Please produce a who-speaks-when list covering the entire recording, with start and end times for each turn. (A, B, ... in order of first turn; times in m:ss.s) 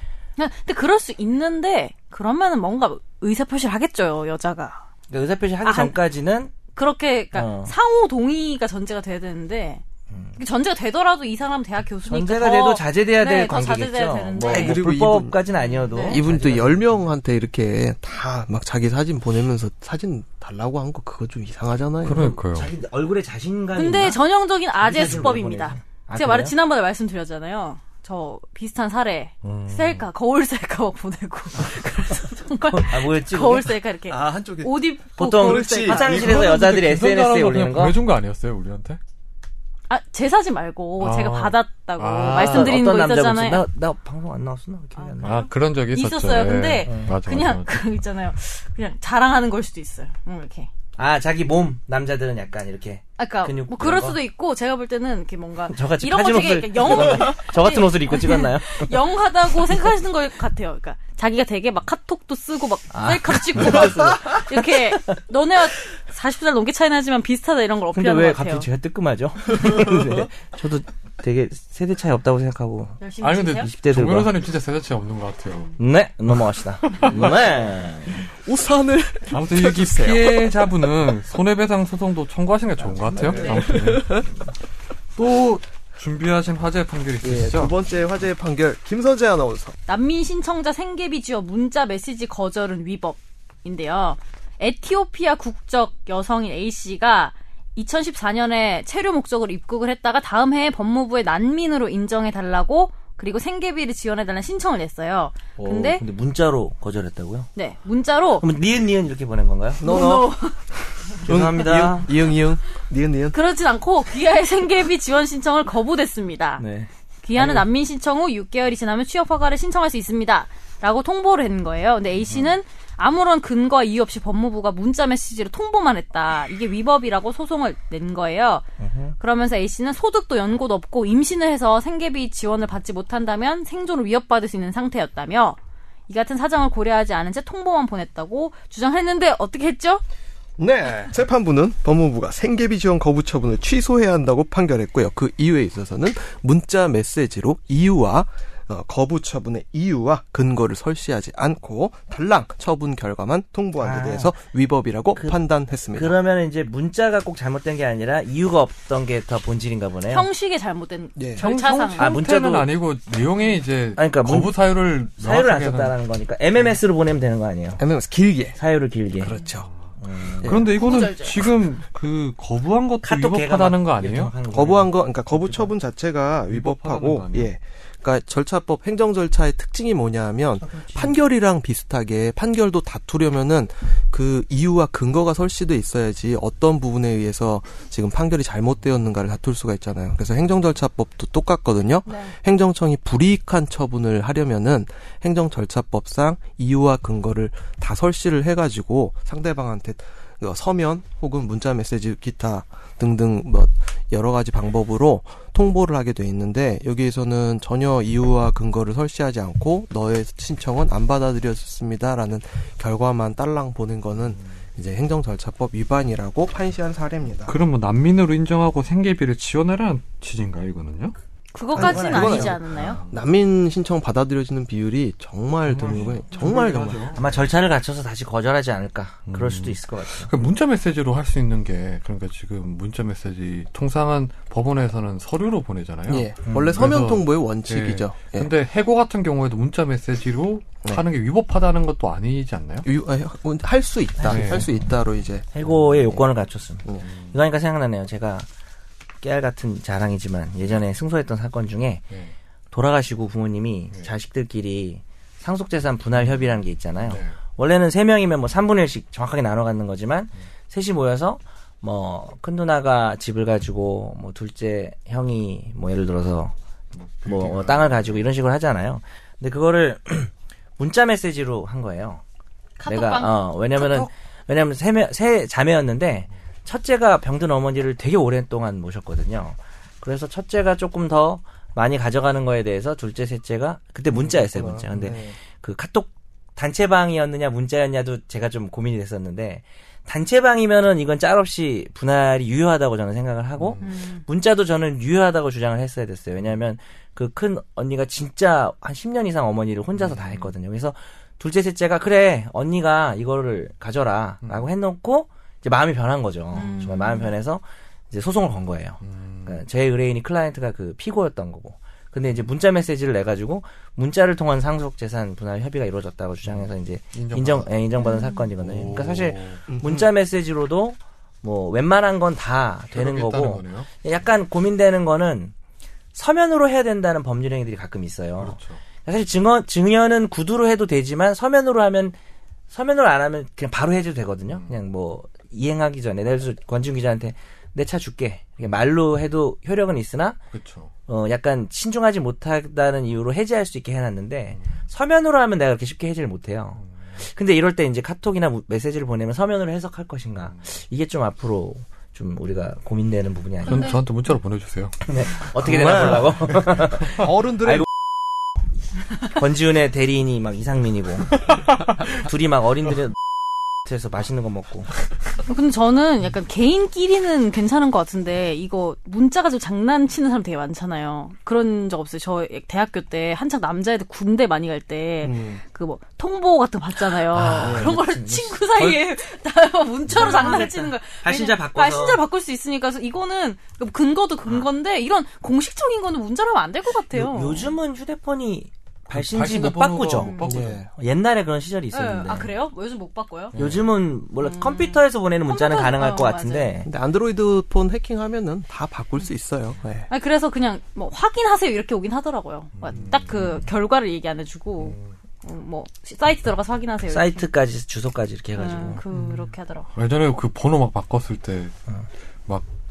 0:00.4-0:04.8 A
0:05.1-0:06.6 B
0:05.6-0:06.0 A
0:06.7-0:09.8 A
0:07.3-0:07.7 B
0:10.1-0:10.4 B
0:10.4-0:14.8 A
0:12.1-0:17.0 B
0:14.4-0:15.4 C
0:15.6-0:16.2 A
0:15.9-0:22.4 C
0:22.0-0:22.7 D
0:22.5-0:24.2 B
0:23.8-0:36.5 A
0:24.8-0:26.5 B
0:29.4-0:30.1 D
0:32.7-0:33.8 B
0:34.1-0:36.7 C
0:35.2-0:38.0 B
0:36.1-0:39.0 D
0:39.9-0:43.6 A
0:41.0-0:42.8 D
0:42.4-0:45.5 B
0:45.0-0:50.7 A
0:45.2-0:47.7 D
0:46.8-0:47.2 B
0:51.0-0:54.2 B
0:53.2-1:08.7 A
0:55.7-0:58.9 B
1:02.9-1:04.8 B
1:07.9-1:13.0 B
1:13.0-1:13.7 A
1:13.2-1:15.8 D
1:13.6-1:14.3 B
1:15.8-1:18.3 B
1:16.3-1:17.4 D
1:17.1-1:17.5 C
1:18.2-1:20.5 C
1:19.3-1:24.2 D
1:23.0-1:23.5 B
1:23.2-1:24.3 C
1:23.4-1:23.7 A
1:25.2-1:27.7 D
1:27.2-1:29.8 C
1:29.9-1:46.0 A
1:45.6-1:47.5 B
1:47.6-1:48.5 A
1:48.4-1:49.9 B
1:49.8-1:50.4 C
1:49.8-1:50.6 A
1:51.1-1:53.4 C
1:51.2-1:52.1 B
1:53.3-1:56.6 A
1:56.6-1:57.6 B
1:57.2-2:08.6 A
2:02.3-2:02.5 B
2:08.8-2:09.2 B
2:09.2-2:15.6 A
2:16.1-2:20.0 A
2:20.6-2:36.2 C
2:33.8-2:34.4 B
2:35.9-2:40.3 B
2:40.1-2:42.2 A
2:41.2-2:41.5 C
2:41.4-2:46.0 D
2:42.0-2:42.7 B
2:44.0-2:44.5 B
2:45.2-2:47.8 B
2:47.8-2:48.6 C
2:48.6-2:49.3 B
2:49.2-2:49.7 C
2:50.0-2:50.7 B
2:50.4-2:54.3 D
2:50.4-2:50.7 C
2:50.8-2:51.4 A
2:53.0-2:55.7 B
2:54.5-3:37.6 C
2:56.5-2:57.5 D
3:12.1-3:12.3 A
3:37.5-3:41.2 D
3:41.5-3:43.0 A
3:41.7-3:42.7 B
3:41.7-3:47.2 C
3:42.7-3:43.2 D
3:45.7-3:46.1 B
3:45.7-3:47.4 D
3:47.2-3:50.3 B
3:49.3-4:02.9 D
3:56.1-3:58.5 C
3:56.5-3:56.9 B
4:02.8-4:06.2 C
4:04.2-4:04.7 B
4:04.3-4:04.7 D
4:05.5-4:08.5 B
4:07.0-4:07.4 D
4:09.2-4:12.0 B
4:12.7-4:26.5 B
4:17.1-4:17.4 D
4:27.0-4:28.2 D
4:27.2-4:32.2 B
4:32.8-4:34.1 A
4:32.9-5:25.5 B
4:44.1-4:45.4 C
4:53.6-4:54.0 D
4:53.8-4:54.2 A
5:00.0-5:00.5 D
5:06.5-5:07.3 A
5:09.0-5:09.6 D
5:16.5-5:17.7 D
5:18.0-5:18.4 A
5:18.6-5:19.6 D
5:19.7-5:20.1 C
5:22.9-5:23.9 D
5:26.1-5:32.2 B
5:28.4-5:28.8 D
5:32.7-5:40.4 B
5:40.5-5:40.9 D
5:41.1-5:54.0 B
5:53.6-5:55.1 D
5:53.7-5:54.0 A
5:55.1-5:57.9 B
5:55.7-5:56.3 C
5:57.1-5:57.9 C
5:59.4-6:01.4 B
6:02.1-6:03.2 B
6:03.8-6:04.9 B
6:05.5-6:27.7 A
6:15.2-6:15.6 C
6:17.3-6:19.0 B
6:17.6-6:18.0 C
6:20.1-6:22.2 B
6:27.1-6:30.4 B
6:29.1-6:30.8 D
6:30.2-6:30.5 A
6:30.4-6:30.9 C
6:30.9-6:32.5 B
6:31.9-6:33.6 A
6:33.6-6:33.9 D
6:33.6-6:36.9 B
6:34.4-6:36.7 A
6:36.9-6:40.1 C
6:40.1-6:47.5 A
6:42.8-6:43.7 D
6:44.8-6:45.1 D
6:47.1-6:49.0 B
6:48.6-6:49.9 A
6:50.0-6:51.7 D